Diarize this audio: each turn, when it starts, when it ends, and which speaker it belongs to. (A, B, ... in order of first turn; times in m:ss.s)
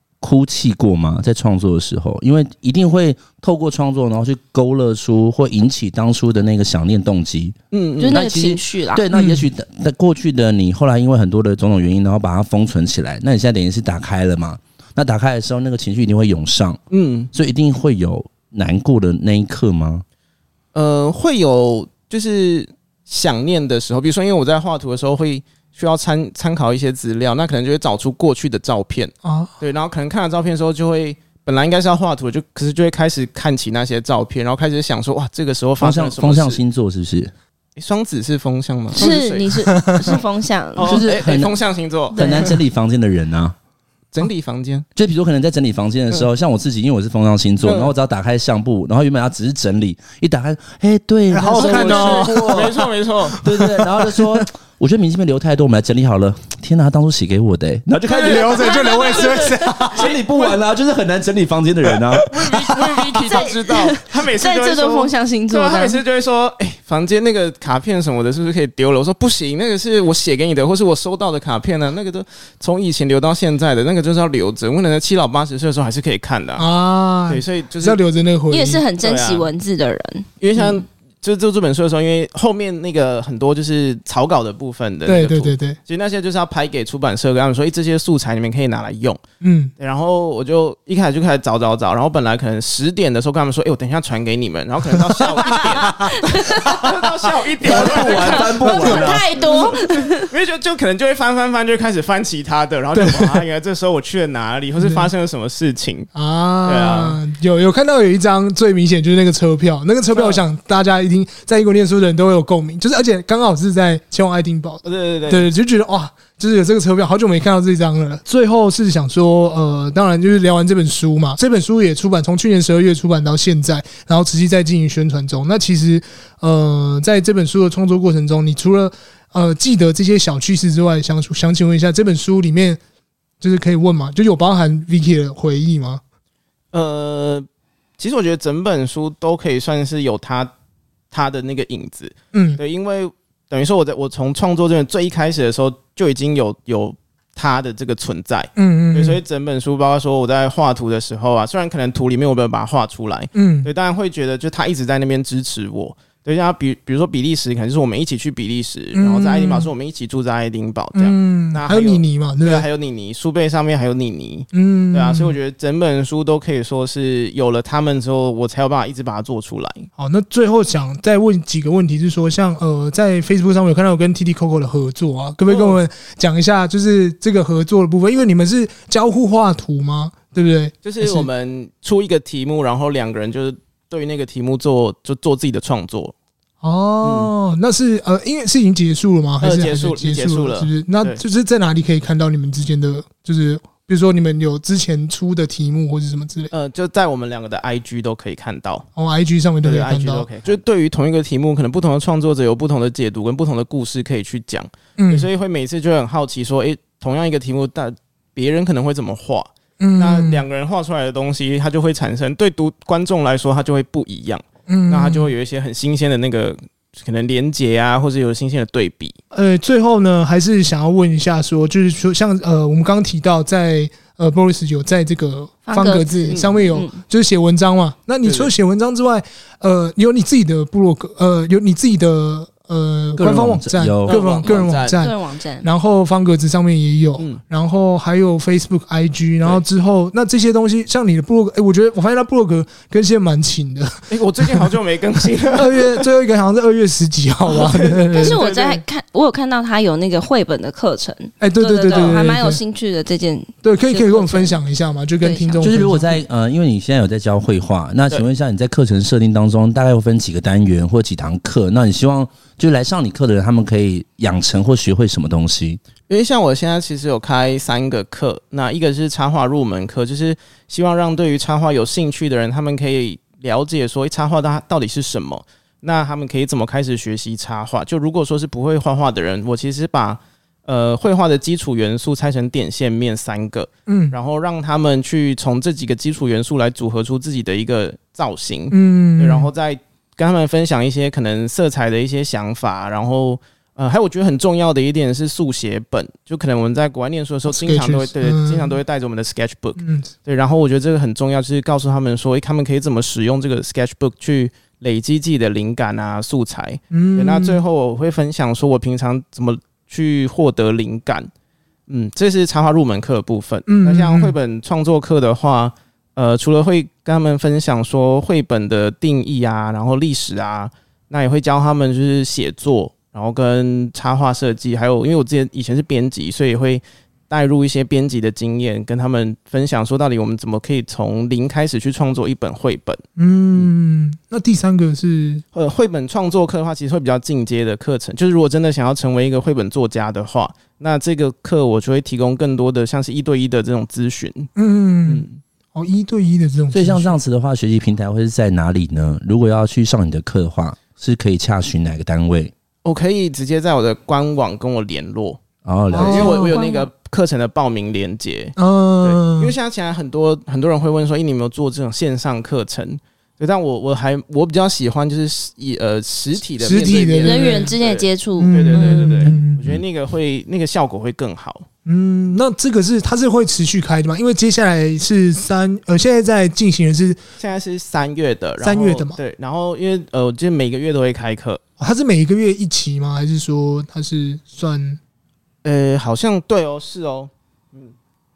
0:00.2-0:07.6 A
0:07.7-0:08.2 B
0:08.0-0:09.0 C
0:08.1-0:16.8 A
0:09.1-0:09.4 D
0:16.9-0:17.3 B
0:17.3-0:20.0 A
0:20.7-0:36.6 B
0:29.2-0:29.5 D
0:35.8-0:37.3 A
0:37.8-0:39.6 B
0:38.9-0:41.1 C
0:39.8-0:40.1 D
0:40.8-0:42.5 B
0:40.8-0:41.5 A
0:42.1-0:43.6 A
0:42.1-0:42.6 C
0:44.1-0:44.8 B
0:45.0-0:52.8 A
0:47.6-0:47.9 B
0:51.3-0:52.5 D
0:51.5-0:53.4 B
0:53.3-0:54.2 D
0:53.4-0:59.0 A
0:58.1-1:00.0 D
0:58.1-0:59.4 B
0:58.5-0:59.7 C
0:59.9-1:02.3 A
0:59.9-1:00.6 B
1:02.1-1:16.6 B
1:03.2-1:06.0 C
1:16.6-1:18.8 D
1:17.3-1:18.0 B
1:18.5-1:20.7 C
1:19.0-1:19.5 B
1:20.4-1:29.2 B
1:25.1-1:25.8 D
1:29.4-1:29.7 D
1:29.8-1:46.1 B
1:35.4-1:36.9 C
1:37.6-1:39.3 A
1:37.7-1:40.3 C
1:42.9-1:43.4 D
1:44.8-1:45.1 D
1:46.1-2:12.8 D
1:46.6-1:47.2 B
1:50.1-1:50.4 B
1:54.8-1:55.5 B
2:13.4-2:16.0 D
2:16.7-2:17.5 B
2:18.0-2:20.5 B
2:21.1-2:49.9 B
2:22.3-2:22.6 D
2:28.6-2:29.2 D
2:33.3-2:33.7 D
2:38.9-2:39.7 D
2:40.9-2:42.6 D
2:44.5-2:45.4 D
2:50.0-3:01.3 D
2:55.5-2:55.8 B
3:00.8-3:06.1 B
3:06.6-3:16.5 D
3:07.0-3:07.3 B
3:09.4-3:11.2 B
3:16.5-3:18.9 B
3:19.0-3:20.3 D
3:19.6-3:39.2 B
3:25.0-3:25.3 D
3:29.8-3:30.4 D
3:34.7-3:35.3 D
3:39.3-4:04.7 D
3:45.7-3:47.0 C
3:46.3-3:46.6 B
3:48.2-3:48.5 B
3:53.2-3:54.2 A
3:54.1-3:55.0 B
3:55.0-3:55.7 C
4:04.1-4:06.0 B
4:05.5-4:08.4 D
4:07.5-4:08.8 B
4:08.1-4:14.6 C
4:11.4-4:12.6 D
4:11.9-4:12.2 B
4:13.6-4:16.1 D
4:15.2-4:15.8 C
4:15.6-4:25.8 A
4:26.1-5:11.3 B
4:43.9-4:44.1 D
4:48.7-4:49.5 D
4:57.5-4:58.8 D
4:59.8-5:00.1 D
5:06.9-5:07.6 D
5:11.9-5:33.0 B
5:13.7-5:14.4 D
5:33.2-5:35.4 D
5:35.5-5:44.5 B
5:44.6-5:47.1 D
5:45.0-5:45.4 B
5:46.7-5:52.5 A
5:52.8-5:55.4 B
5:55.6-5:56.5 A
5:55.9-5:56.6 D
5:55.9-6:11.7 B
5:56.5-5:56.9 C
5:58.6-5:59.5 D
6:06.6-6:07.7 D
6:07.2-6:09.3 C
6:08.4-6:09.6 D
6:11.8-6:17.2 D
6:17.4-6:21.6 B
6:18.6-6:19.2 D
6:21.8-6:25.0 D
6:25.6-6:27.9 B